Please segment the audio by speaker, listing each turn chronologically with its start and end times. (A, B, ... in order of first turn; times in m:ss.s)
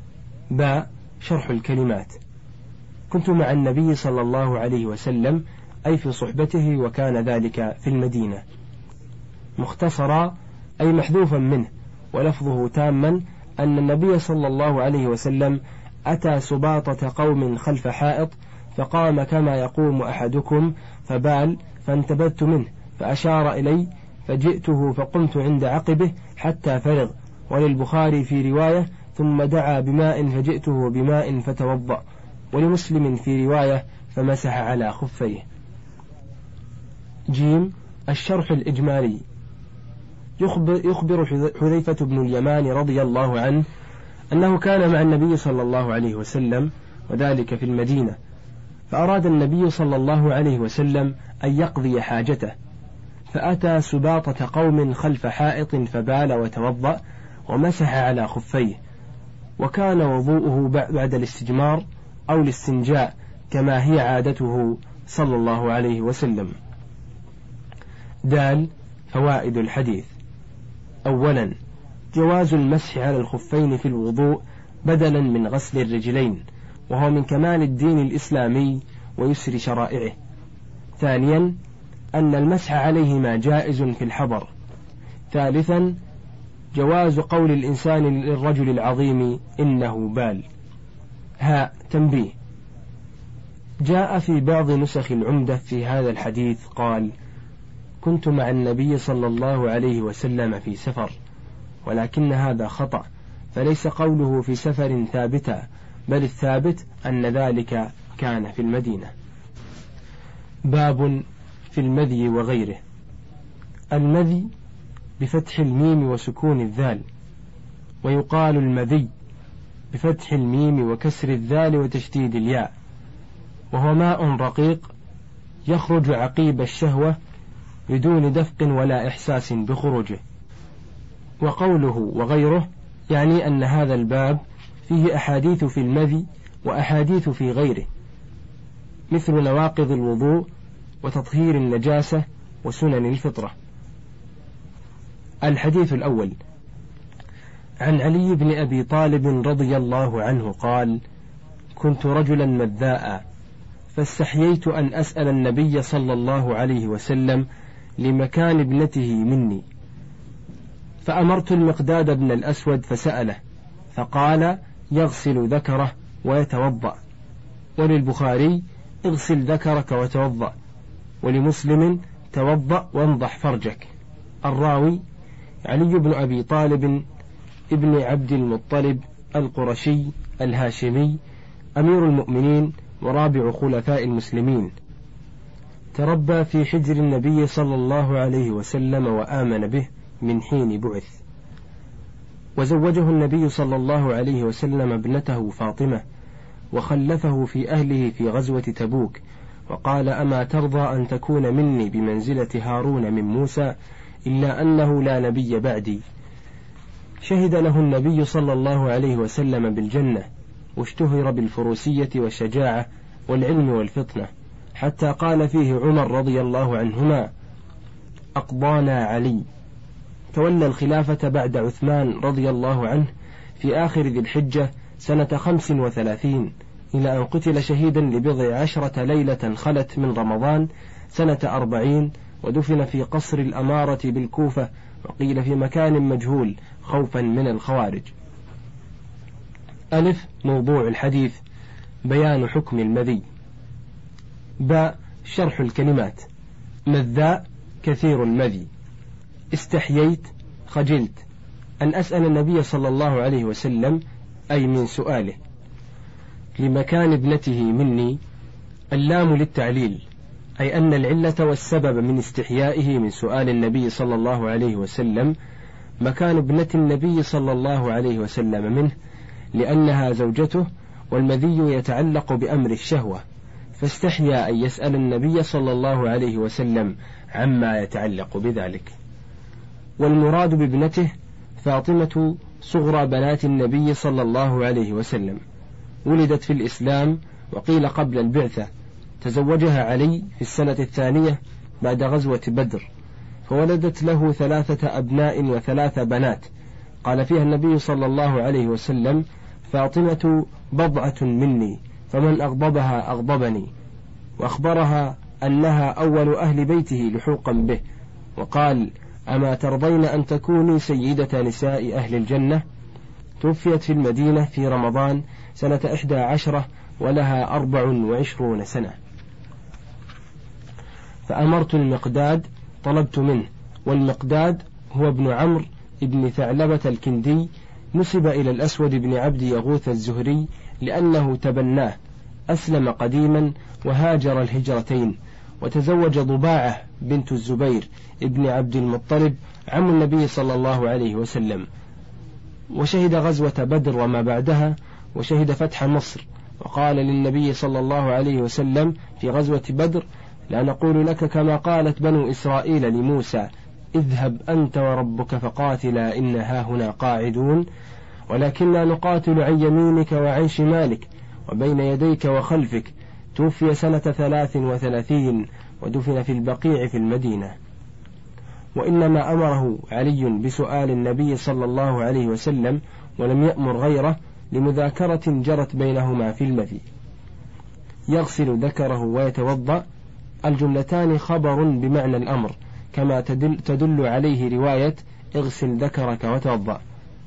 0:00.5-0:02.2 A
0:03.1-0:08.4 A
0:09.6-0:35.4 A
0:37.3-0:39.2 A
0:40.4-0:43.6 A
0:44.3-0:48.2 A
0:48.9-0:52.5 A
0:53.3-0:58.8 A
0:59.6-1:06.5 A
1:08.2-1:10.1 A
1:11.0-1:11.5 A
1:12.1-1:20.2 A
1:21.0-1:21.6 A
1:22.1-1:24.5 A
1:25.3-1:26.0 A
1:26.7-1:30.4 A
1:31.4-1:32.3 A
1:33.8-1:37.1 A
1:38.0-1:41.1 A
1:41.8-1:49.1 A
1:50.7-1:52.8 A
1:53.9-1:54.5 A
1:55.2-1:57.0 A
1:58.0-1:59.1 A
1:59.9-2:02.7 A
2:03.7-2:04.9 A
2:05.7-2:07.2 A
2:07.9-2:10.2 A
2:11.4-2:17.9 A
2:19.1-2:20.5 A
2:21.0-2:23.5 A
2:25.4-2:26.4 A
2:27.8-2:31.0 A
2:31.8-2:33.2 A
2:33.9-2:37.5 A
2:38.0-2:39.6 A
2:41.0-2:43.4 A
2:43.9-2:47.0 A
2:47.8-2:50.5 A
2:51.2-2:53.9 A
2:54.4-2:55.0 A
2:55.6-2:57.0 A
2:57.7-3:01.2 A
3:01.8-3:04.7 A
3:05.9-3:11.2 A
3:12.6-3:16.0 A
3:16.7-3:23.7 A
3:24.2-3:26.0 A
3:27.2-3:37.3 A
3:38.4-3:39.4 A
3:40.3-3:58.1 A
3:59.9-4:01.4 A
4:02.0-4:03.2 A
4:04.6-4:06.2 A
4:06.9-4:08.7 A
4:09.5-4:11.2 A
4:11.8-4:14.0 A
4:14.5-4:15.4 A
4:16.6-4:18.2 A
4:18.9-4:20.0 A
4:20.6-4:25.3 A
4:26.0-4:28.9 A
4:29.5-4:33.2 A
4:33.8-4:38.9 A
4:40.0-4:45.4 A
4:46.0-4:48.7 A
4:49.2-4:52.9 A
4:53.5-4:56.5 A
4:57.0-5:03.7 A
5:04.4-5:07.8 A
5:08.4-5:12.6 A
5:13.4-5:19.0 A
5:21.3-5:32.0 A
5:32.5-5:41.7 A
5:42.7-5:57.7 A
5:58.3-6:07.5 A
6:08.7-6:16.8 A
6:18.1-6:19.8 A
6:20.4-6:26.8 A